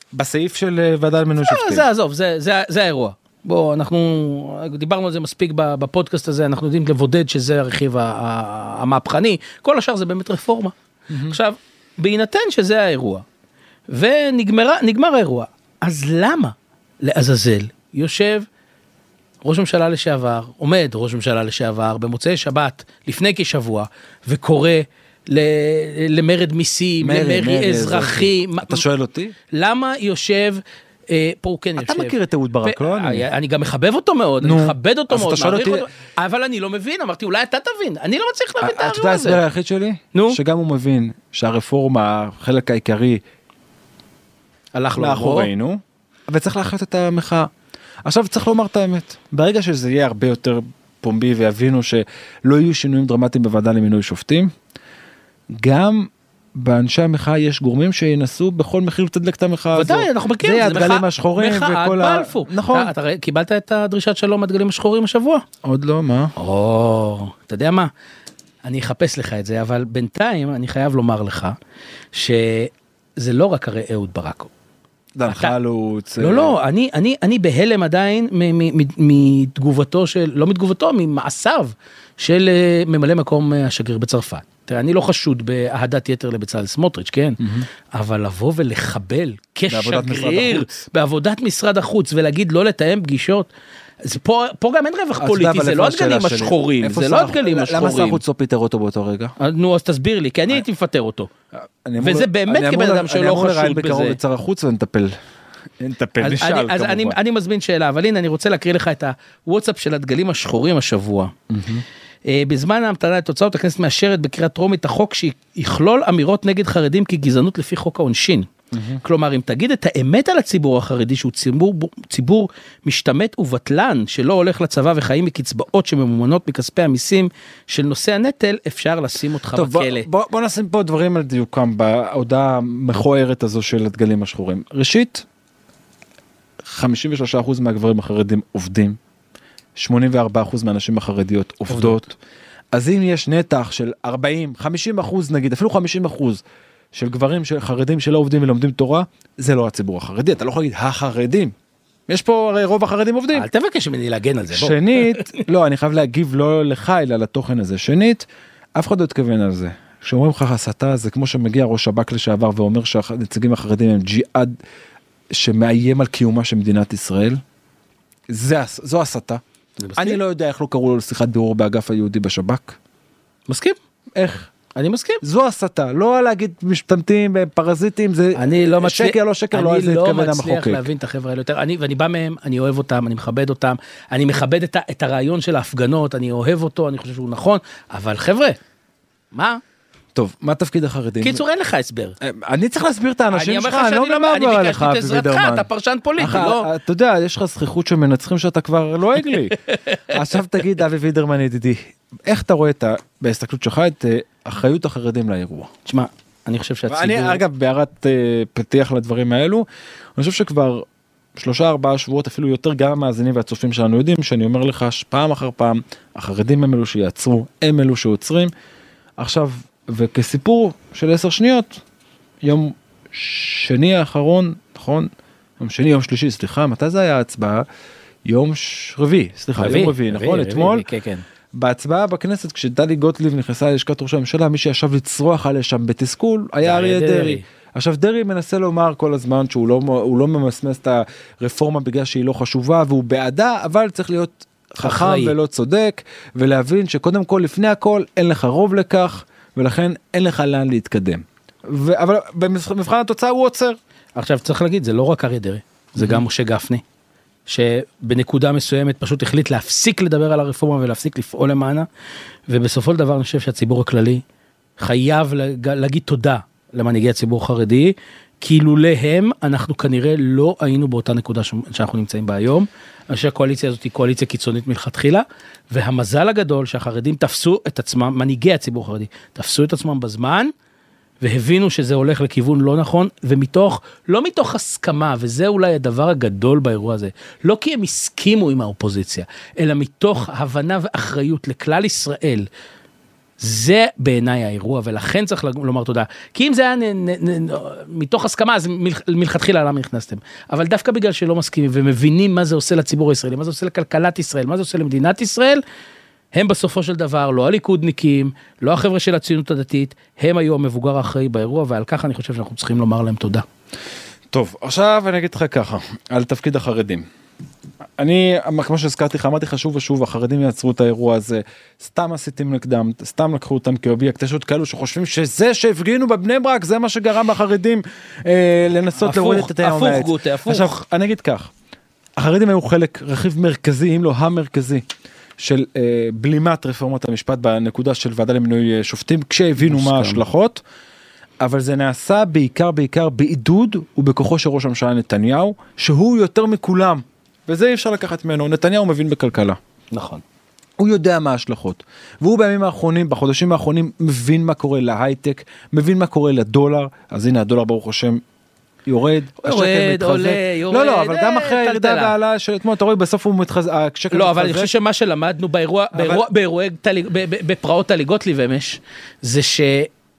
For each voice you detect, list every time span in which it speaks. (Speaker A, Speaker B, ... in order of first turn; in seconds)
Speaker A: 0.1-1.9, 11.1-11.4, 27.0-29.4, 31.8-33.3, 34.4-35.9, 38.6-43.2, 45.0-47.5, 48.1-54.5, 55.5-62.9, 65.6-66.3, 75.2-76.5, 87.4-87.7, 89.7-90.8, 95.2-99.3, 101.5-105.1, 105.8-107.2, 111.5-111.8, 118.7-119.0, 129.5-135.3, 136.6-139.0, 139.8-142.2, 142.7-151.5, 152.1-153.5, 154.5-158.3, 158.8-164.6, 165.3-167.4, 168.3-169.4, 170.0-172.8, 174.2-174.5, 175.2-180.8, 190.2-191.4, 192.2-199.6, 200.1-205.7, 206.9-218.5, 219.2-221.8, 222.4-227.7, 228.3-230.9, 231.5-253.8, 256.0-256.2, 314.3-317.1, 318.0-331.5, 332.2-334.9, 335.4-340.6, 341.4-349.6, 350.8-358.2, 358.9-364.7, 365.9-366.2
Speaker B: 1.4-13.2, 13.9-18.5, 19.4-28.9, 29.5-39.4, 40.1-40.4, 44.8-45.5, 59.8-65.5, 66.4-67.9, 68.7-71.5, 72.1-74.5, 75.3-75.5, 76.2-93.5, 94.0-98.2, 99.4-101.3, 102.0-104.2, 106.2-111.3, 112.3-118.5, 119.0-130.1, 141.7-142.0, 153.3-155.4, 169.8-170.2, 173.5-173.8, 174.8-175.2, 178.3-188.6, 189.3-189.6, 191.2-192.2, 193.3-196.7, 199.3-200.2, 205.9-207.4, 229.6-231.2, 236.6-237.4, 244.8-245.3, 254.2-256.8, 257.5-261.9, 262.5-264.2, 264.8-280.5, 281.2-292.5, 293.4-305.6, 306.3-313.4, 329.0-330.8, 339.6-340.2, 349.9-350.2, 359.4-362.1, 364.1-369.9